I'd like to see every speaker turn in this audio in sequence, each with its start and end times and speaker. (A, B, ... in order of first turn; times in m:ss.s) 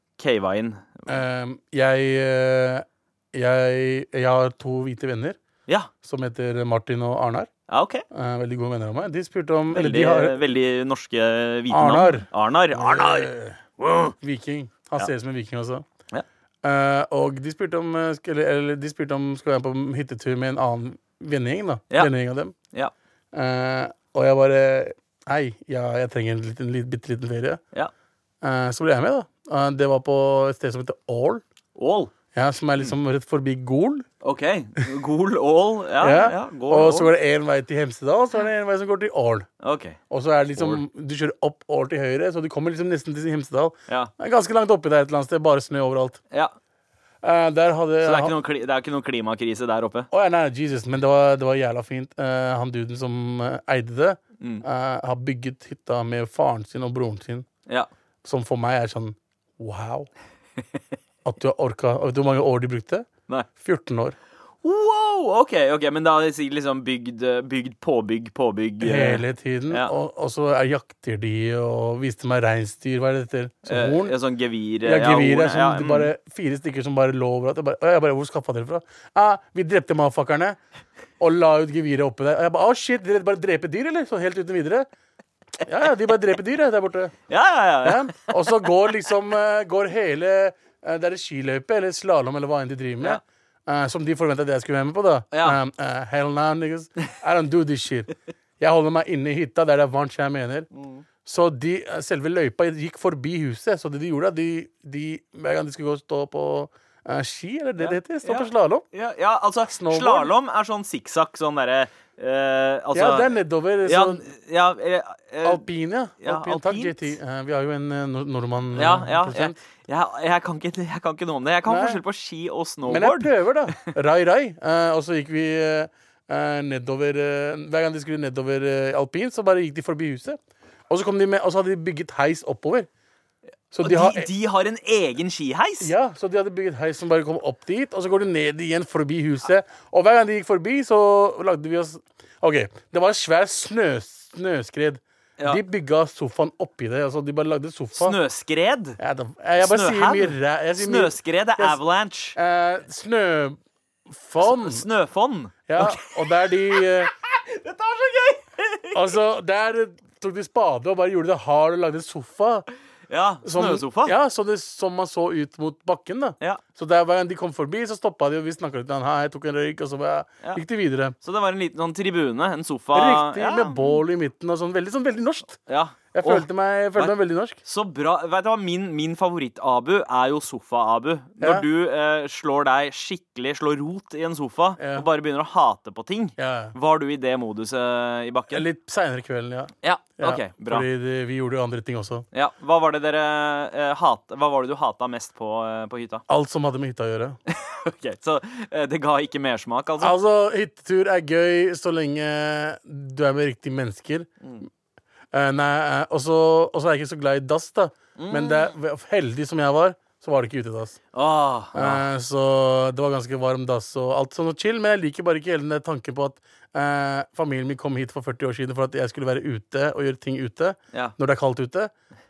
0:00.2-0:01.1 A
0:01.1-0:05.4 B
0:06.0-0:07.5 B
0:07.7-0:08.0 A
0:08.1-0:10.4 B
0:09.7-0:14.2 A
0:11.7-0:13.6 B
0:14.2-0:15.8 B
0:16.6-0:22.6 B
0:23.3-0:27.6 B
0:28.4-0:31.4 B
0:31.8-0:32.1 A
0:32.3-0:34.1 B
0:34.2-0:37.1 A
0:36.0-0:39.5 B
0:39.6-0:40.0 A
0:40.1-0:46.2 B
0:40.5-0:40.8 A
0:47.2-0:48.4 B
0:48.0-0:50.1 A
0:50.1-0:57.5 B
0:54.4-0:54.6 A
0:58.2-1:00.1 B
1:01.2-1:04.2 B
1:04.6-1:09.9 A
1:08.8-1:14.2 B
1:13.7-1:16.1 A
1:14.8-1:20.6 B
1:21.2-1:24.9 B
1:25.6-1:27.2 B
1:27.3-1:28.2 A
1:27.8-1:40.7 B
1:35.3-1:35.6 A
1:40.8-1:41.0 A
1:41.2-1:48.8 B
1:47.8-1:53.3 A
1:49.7-1:50.3 B
1:52.9-1:54.2 B
1:53.8-1:55.6 A
1:55.4-1:59.6 B
1:56.2-1:57.2 A
1:58.8-2:03.9 A
2:01.7-2:02.0 B
2:02.9-2:12.9 B
2:13.7-2:14.3 B
2:13.8-2:15.9 A
2:15.8-2:28.2 B
2:28.0-2:29.0 A
2:29.0-2:31.8 B
2:29.6-2:32.4 A
2:32.4-2:33.6 B
2:34.1-2:34.8 B
2:34.4-2:39.0 A
2:35.7-2:37.1 B
2:38.9-2:42.7 B
2:43.1-2:44.2 A
2:43.4-2:51.2 B
2:51.2-2:54.0 A
2:52.9-2:55.6 B
2:55.7-3:08.6 A
2:56.1-2:57.6 B
3:01.4-3:01.6 B
3:04.8-3:05.1 B
3:06.4-3:06.8 B
3:08.5-3:12.3 B
3:09.8-3:10.9 A
3:12.3-3:16.2 A
3:16.3-3:17.4 B
3:17.5-3:20.2 A
3:20.0-3:24.3 B
3:25.3-3:31.0 B
3:28.2-3:28.7 A
3:31.1-3:32.0 A
3:31.7-3:41.9 B